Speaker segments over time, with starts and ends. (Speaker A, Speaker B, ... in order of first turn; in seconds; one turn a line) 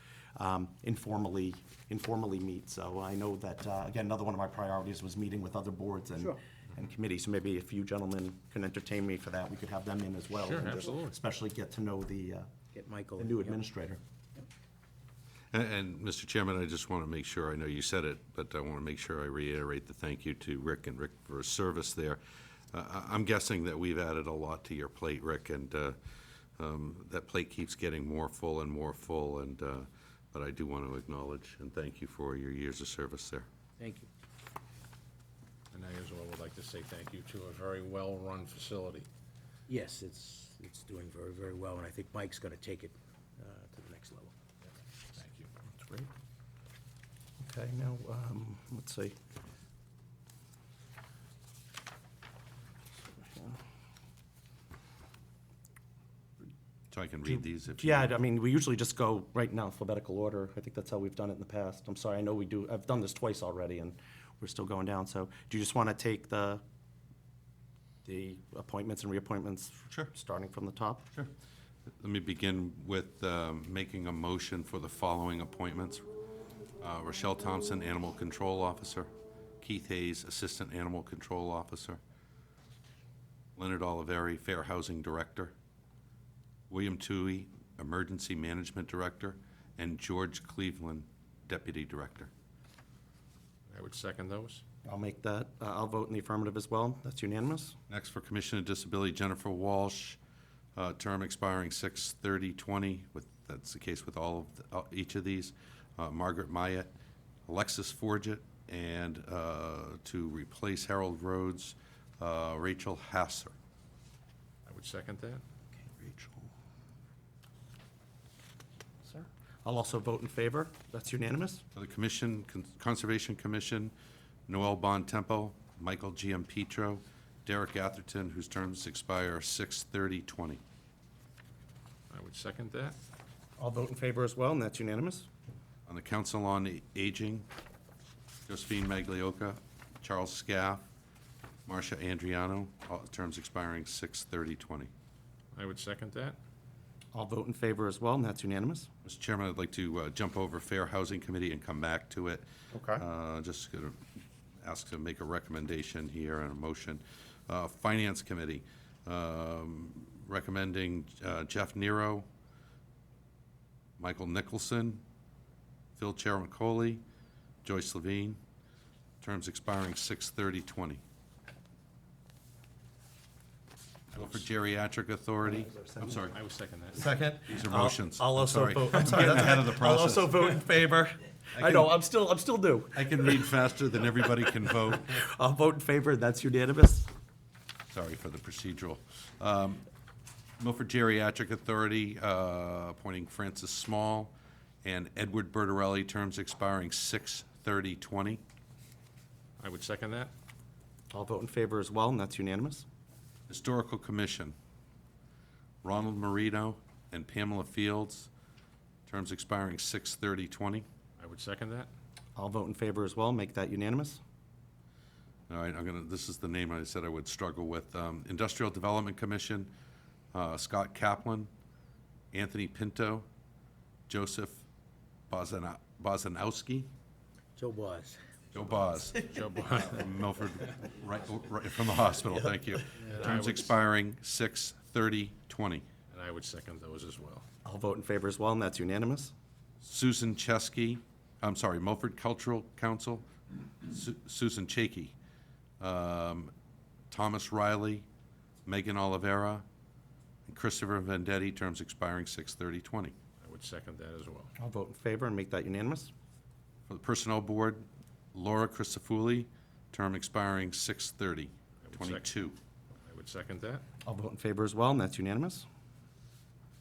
Speaker A: 0.3-12.5
Speaker B: 10.3-11.1
Speaker C: 12.7-13.6
Speaker A: 13.2-14.0
Speaker D: 15.5-22.2
Speaker D: 22.7-26.0
Speaker D: 26.6-33.5
Speaker C: 33.8-34.1
Speaker B: 35.7-39.1
Speaker C: 39.7-44.3
Speaker B: 45.1-46.1
Speaker A: 47.4-49.1
Speaker D: 56.9-58.1
Speaker A: 57.3-66.6
Speaker A: 68.0-71.0
Speaker D: 72.0-76.0
Speaker D: 76.8-82.0
Speaker D: 83.5-85.5
Speaker D: 86.7-92.3
Speaker B: 93.7-94.6
Speaker A: 94.8-97.8
Speaker D: 97.9-100.2
Speaker D: 100.8-106.9
Speaker D: 107.5-113.5
Speaker B: 114.7-115.4
Speaker A: 115.8-116.5
Speaker A: 119.0-121.6
Speaker D: 121.7-123.9
Speaker D: 124.5-130.6
Speaker B: 132.1-133.0
Speaker A: 133.6-135.3
Speaker D: 135.9-137.5
Speaker D: 138.5-140.8
Speaker D: 141.7-144.9
Speaker B: 145.5-146.4
Speaker A: 147.1-148.9
Speaker D: 149.0-154.0
Speaker A: 152.7-153.0
Speaker D: 154.6-162.3
Speaker D: 164.0-165.0
Speaker D: 166.0-167.0
Speaker D: 167.6-168.4
Speaker D: 169.2-171.0
Speaker D: 174.1-176.3
Speaker A: 175.4-176.3
Speaker B: 176.3-177.1
Speaker A: 176.9-183.3
Speaker D: 177.4-180.6
Speaker D: 181.5-182.0
Speaker D: 182.9-185.2
Speaker A: 185.0-187.1
Speaker D: 187.9-189.8
Speaker D: 190.6-198.4
Speaker B: 199.6-200.3
Speaker A: 201.1-202.8
Speaker D: 203.5-204.5
Speaker D: 205.8-208.3
Speaker D: 209.1-210.8
Speaker B: 211.2-211.9
Speaker A: 212.3-214.2
Speaker D: 215.5-219.7
Speaker D: 220.3-221.5
Speaker D: 222.3-223.2
Speaker D: 224.1-224.6
Speaker D: 225.3-226.9
Speaker C: 227.6-228.2
Speaker D: 228.5-235.9
Speaker B: 229.2-230.0
Speaker B: 233.0-233.7
Speaker B: 236.1-237.4
Speaker A: 237.6-239.3
Speaker D: 239.8-243.3
Speaker D: 243.8-245.1
Speaker D: 245.8-246.5
Speaker D: 247.1-248.1
Speaker D: 248.6-249.6
Speaker D: 250.5-253.1
Speaker B: 253.4-254.5
Speaker A: 254.6-256.1
Speaker D: 256.9-262.6
Speaker B: 261.8-262.3
Speaker B: 263.0-263.8
Speaker A: 264.0-265.6